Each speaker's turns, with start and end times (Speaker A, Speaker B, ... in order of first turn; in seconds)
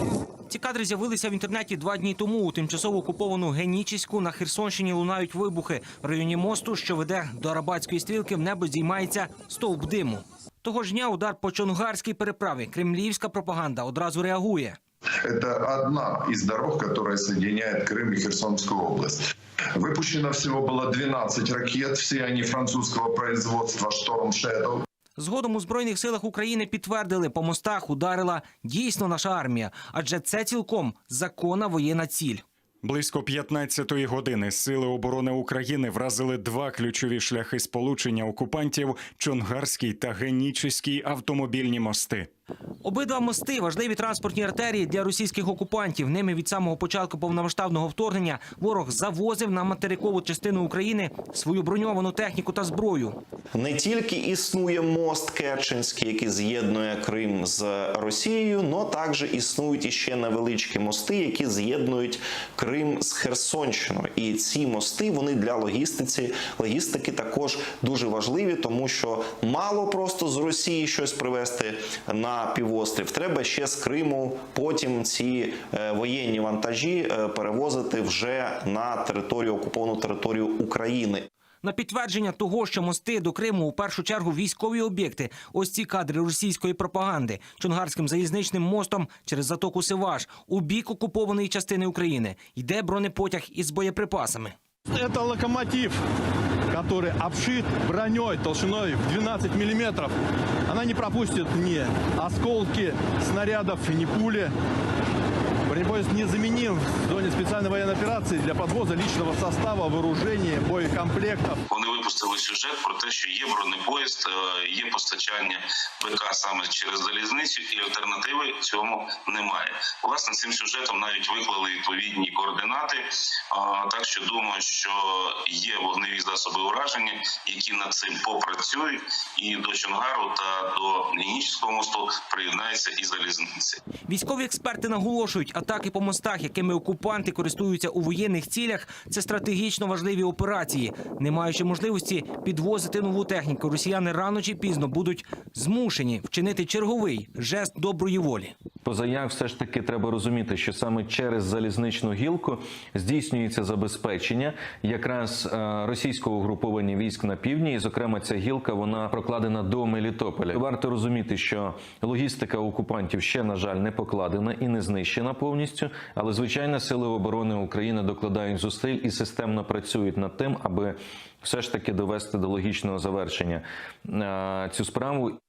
Speaker A: 0.3-14.8, 25.2-32.4, 42.8-53.2, 81.6-94.5, 134.1-148.5
Speaker B: 15.2-19.2, 19.7-24.8
Speaker C: 32.8-42.3
Speaker D: 53.5-81.3
Speaker E: 94.9-96.0, 96.7-100.1, 100.7-104.5, 105.7-111.6
Speaker F: 111.7-133.8
Speaker G: 148.8-175.4